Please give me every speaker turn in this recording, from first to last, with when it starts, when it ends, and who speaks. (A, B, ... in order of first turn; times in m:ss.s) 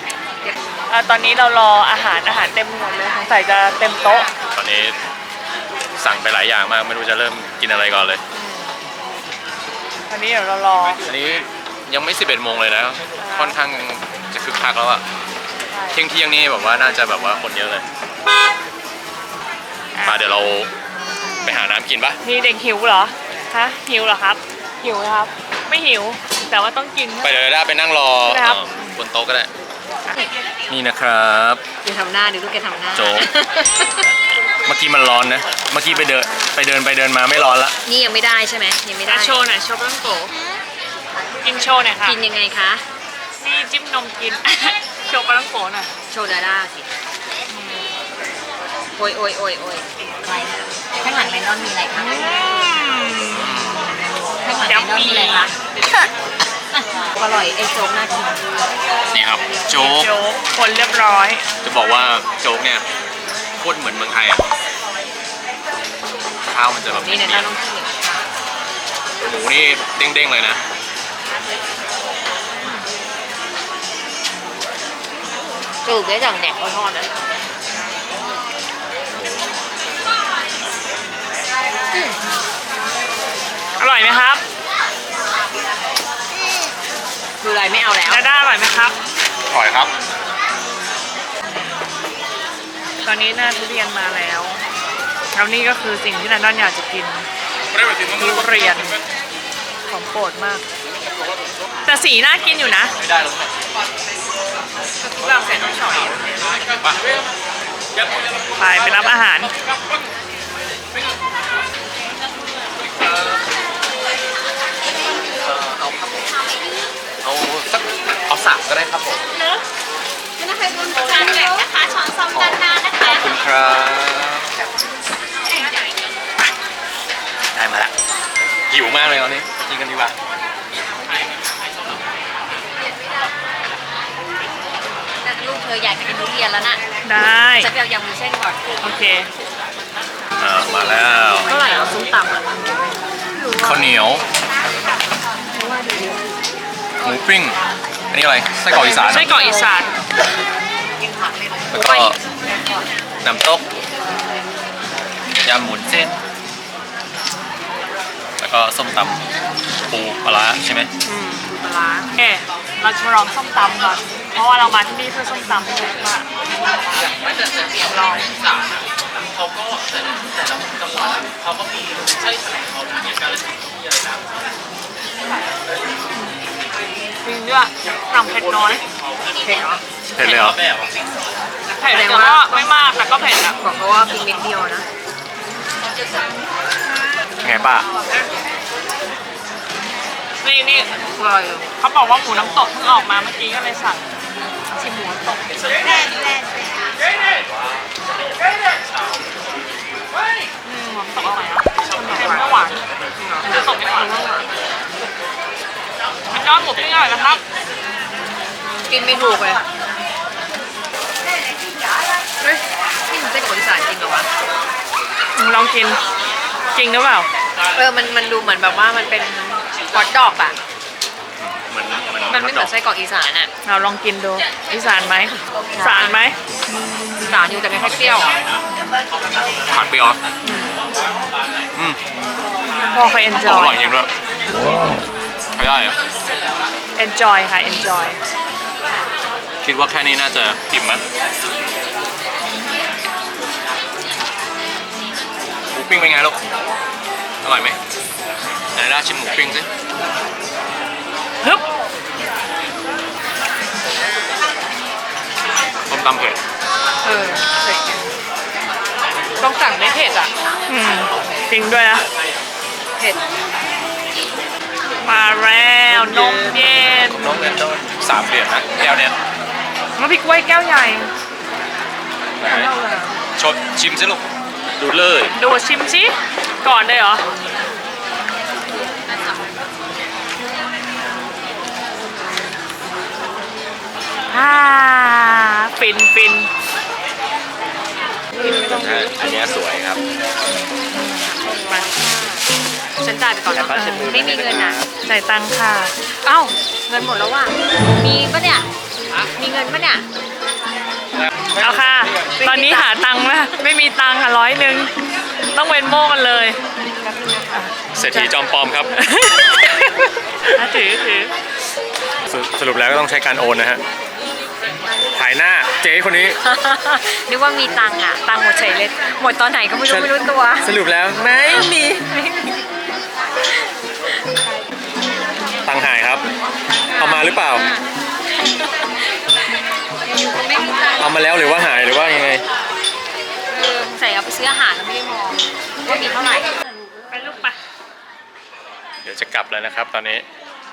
0:00.9-0:04.3 A
0:04.5-0:05.0 B
0:06.0-0:08.2 B
0:08.4-0:08.7 C
0:10.1-0:11.0 A
0:11.0-0:15.0 B
0:13.2-0:13.6 A
0:15.7-0:16.0 A
0:15.9-0:17.8 B
0:19.9-0:20.5 A
0:20.0-0:20.7 B
0:21.4-0:22.2 B
0:22.2-0:27.5 A
0:27.2-0:29.5 B
0:28.2-0:29.0 A
0:30.7-0:31.6 B
0:31.8-0:34.1 C
0:32.9-0:33.3 B
0:34.6-0:37.8 B
0:36.2-0:36.6 C
0:37.8-0:39.5 C
0:39.0-0:40.3 A
0:41.4-0:42.2 A
0:42.0-0:42.8 C
0:43.4-0:45.9 A
0:46.1-0:46.9 C
0:47.5-0:47.9 A
0:48.9-0:52.7 C
0:51.9-0:53.5 A
0:53.2-0:53.9 B
0:54.4-0:55.5 C
0:54.6-0:55.5 A
0:56.8-0:58.4 C
0:59.1-1:00.1 B
0:59.8-1:01.5 A
1:01.6-1:02.8 B
1:03.6-1:04.5 B
1:06.4-1:07.6 B
1:06.9-1:08.2 C
1:09.2-1:10.6 B
1:15.8-1:17.1 C
1:19.1-1:19.4 B
1:21.9-1:22.2 C
1:23.8-1:24.4 A
1:27.4-1:28.2 C
1:28.0-1:29.0 A
1:29.5-1:29.9 B
1:33.0-1:34.6 A
1:35.3-1:37.3 A
1:37.7-1:38.7 B
1:38.2-1:39.0 A
1:39.9-1:40.6 A
1:41.8-1:42.9 A
1:43.0-1:43.5 B
1:45.0-1:46.2 C
1:45.5-1:46.1 A
1:48.6-1:49.5 A
1:55.4-1:56.3 B
1:57.2-1:59.2 B
2:02.3-2:04.5 B
2:07.5-2:07.9 B
2:08.7-2:10.1 B
2:15.2-2:16.8 C
2:17.0-2:17.7 A
2:17.6-2:18.7 C
2:18.8-2:19.3 A
2:20.4-2:21.5 B
2:21.4-2:22.5 C
2:23.3-2:23.9 C
2:23.6-2:24.2 B
2:25.5-2:26.2 C
2:27.0-2:27.6 B
2:28.1-2:29.3 B
2:28.8-2:30.0 A
2:29.2-2:29.6 C
2:31.7-2:32.2 B
2:31.7-2:32.6 C
2:33.2-2:33.7 B
2:35.4-2:36.2 B
2:38.4-2:39.2 B
2:39.8-2:40.9 B
2:41.0-2:42.1 C
2:42.1-2:46.3 A
2:57.2-2:58.8 A
2:59.3-2:59.8 C
3:00.1-3:00.6 B
3:01.8-3:03.6 A
3:01.8-3:02.9 C
3:03.5-3:04.8 C
3:07.4-3:07.8 B
3:10.4-3:10.9 A
3:11.1-3:11.7 C
3:11.8-3:14.0 A
3:14.7-3:15.4 C
3:20.6-3:22.8 A
3:21.9-3:22.4 C
3:23.2-3:24.5 C
3:23.4-3:24.1 A
3:26.3-3:27.4 A
3:28.7-3:29.6 C
3:32.4-3:34.3 C
3:35.4-3:36.0 A
3:36.7-3:37.3 A
3:37.7-3:40.6 C
3:41.4-3:42.7 B
3:42.3-3:43.5 C
3:43.6-3:46.4 A
3:45.7-3:46.2 C
3:47.2-3:48.4 C
3:49.7-3:50.2 B
3:50.4-3:50.8 C
3:51.7-3:52.0 B
3:52.9-3:53.9 A
3:53.3-3:56.0 B
3:57.0-3:58.2 A
3:59.6-4:01.0 B
4:05.7-4:06.4 B
4:07.4-4:07.8 B
4:08.7-4:09.7 B
4:15.9-4:16.4 B
4:17.0-4:18.0 C
4:19.4-4:20.3 C
4:20.7-4:22.0 A
4:25.0-4:27.3 A
4:25.9-4:29.2 B
4:30.0-4:31.1 A
4:32.4-4:32.7 B
4:32.4-4:33.1 A
4:33.4-4:34.2 B
4:34.8-4:35.3 B
4:35.3-4:37.2 A
4:44.3-4:46.5 A
4:48.3-4:49.1 A
4:48.4-4:50.0 B
4:50.9-4:51.9 A
4:51.0-4:52.5 C
4:53.0-4:54.8 C
4:53.5-4:54.9 B
4:53.7-4:54.1 A
4:55.0-4:55.9 A
4:56.2-4:58.7 C
4:59.2-5:00.0 C
5:01.6-5:04.9 A
5:02.4-5:03.0 C
5:05.5-5:06.6 A
5:06.8-5:07.7 C
5:07.5-5:09.6 A
5:07.9-5:08.9 B
5:10.4-5:11.3 A
5:12.2-5:13.8 B
5:15.1-5:16.4 B
5:16.4-5:20.7 C
5:19.8-5:22.0 B
5:21.7-5:22.6 C
5:23.5-5:24.4 C
5:25.6-5:26.2 B
5:26.8-5:29.2 C
5:27.0-5:27.7 B
5:30.0-5:31.2 C
5:31.0-5:32.4 B
5:33.5-5:36.6 C
5:37.1-5:37.6 A
5:39.0-5:40.2 B